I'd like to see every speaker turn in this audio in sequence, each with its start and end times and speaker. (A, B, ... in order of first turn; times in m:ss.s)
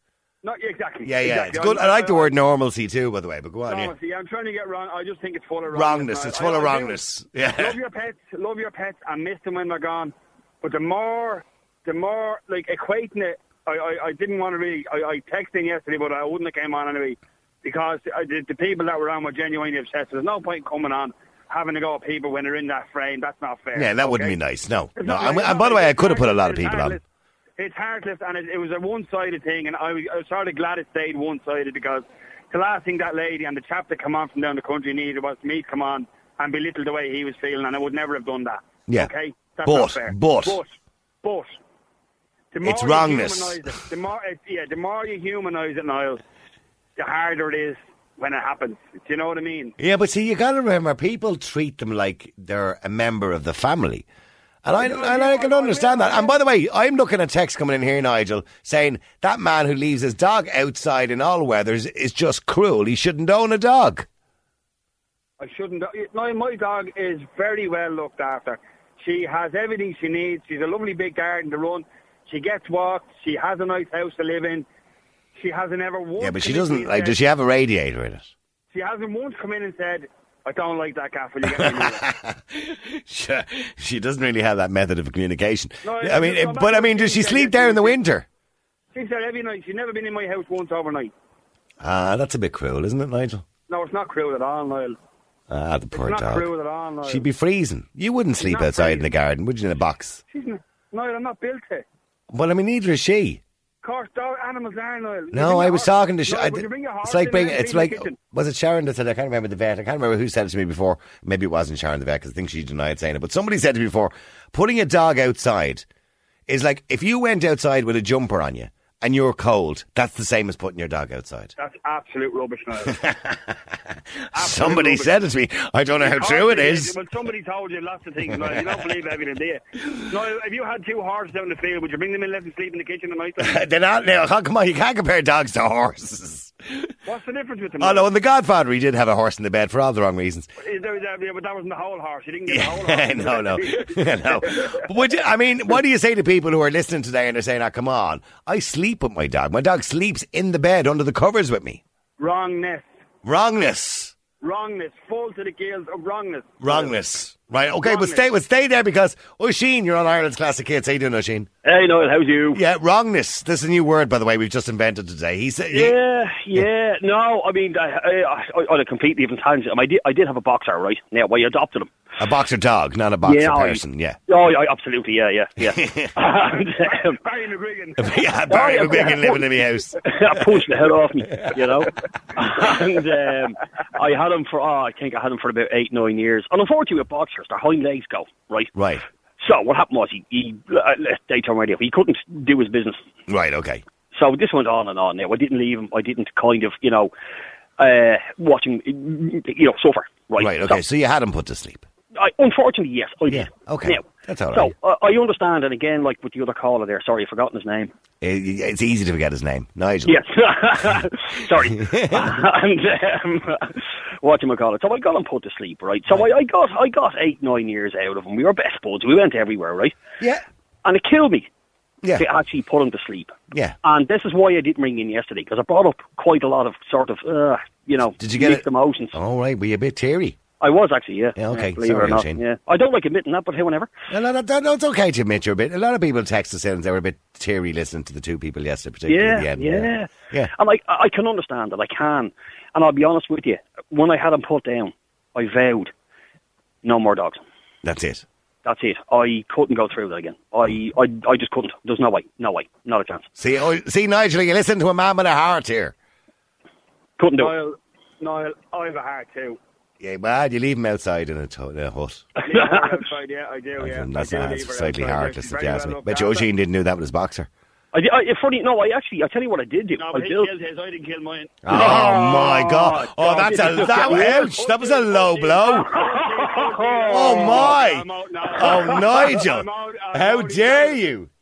0:00.4-0:02.3 A
0:01.0-0:03.9 B
0:03.7-0:07.0 A
0:05.7-0:07.8 B
0:07.6-0:24.4 A
0:23.7-0:27.0 B
0:25.0-0:27.0 A
0:27.6-0:41.6 A
0:39.6-0:40.6 B
0:42.5-0:46.2 A
0:42.6-0:43.6 B
0:47.0-0:49.8 A
0:49.8-0:54.1 B
0:54.6-1:04.1 B
0:54.8-0:56.3 A
1:05.4-1:14.6 A
1:15.3-1:17.2 A
1:16.2-1:18.3 B
1:18.7-1:22.0 A
1:21.4-1:28.2 B
1:25.8-1:28.0 A
1:28.9-1:31.1 A
1:31.8-1:33.4 B
1:33.7-1:35.0 A
1:35.5-1:36.5 B
1:35.9-1:37.2 A
1:37.0-1:40.2 B
1:38.4-1:39.1 A
1:40.3-1:41.8 A
1:42.3-1:43.4 B
1:43.8-1:48.2 A
1:45.3-1:55.9 B
1:56.5-2:01.5 B
2:01.6-2:03.0 A
2:02.9-2:03.8 B
2:04.3-2:05.1 A
2:04.3-2:07.0 B
2:06.0-2:13.6 A
2:13.4-2:16.9 B
2:17.0-2:18.1 A
2:17.8-2:20.5 B
2:20.6-2:24.8 A
2:22.5-2:31.8 B
2:32.2-2:32.9 A
2:33.2-2:34.1 B
2:34.4-2:37.0 A
2:36.6-2:41.5 B
2:37.8-2:38.2 A
2:41.6-2:42.6 C
2:42.5-2:46.0 B
2:45.7-2:51.9 C
2:52.2-2:54.2 B
2:53.2-2:57.2 C
2:55.6-2:56.1 B
2:56.5-2:58.1 A
2:58.0-3:00.0 B
2:58.5-2:59.4 C
3:00.0-3:08.7 C
3:01.3-3:01.6 B
3:08.8-3:09.0 B
3:09.4-3:13.0 C
3:13.3-3:13.8 B
3:14.1-3:17.1 C
3:17.8-3:20.8 C
3:20.4-3:21.9 B
3:22.2-3:27.9 C
3:23.3-3:24.7 B
3:28.2-3:30.2 B
3:30.1-3:40.0 C
3:31.8-3:32.3 B
3:40.2-3:40.4 B
3:40.8-3:41.5 C
3:42.2-3:49.2 C
3:43.5-3:43.8 B
3:48.2-3:50.4 B
3:50.6-3:53.9 C
3:51.4-3:52.4 B
3:54.1-4:00.5 B
3:59.1-4:05.9 C
4:06.8-4:07.4 C
4:07.8-4:08.2 B
4:08.6-4:13.3 C
4:13.4-4:15.9 B
4:17.2-4:17.5 C
4:17.4-4:19.6 A
4:20.0-4:22.2 B
4:22.4-4:26.5 A
4:22.4-4:22.9 C
4:23.8-4:27.5 B
4:27.9-4:30.5 C
4:30.0-4:32.2 A
4:31.6-4:35.9 B
4:31.7-4:34.5 C
4:33.5-4:41.0 A
4:36.4-4:37.8 C
4:37.1-4:41.3 B
4:38.8-4:39.3 C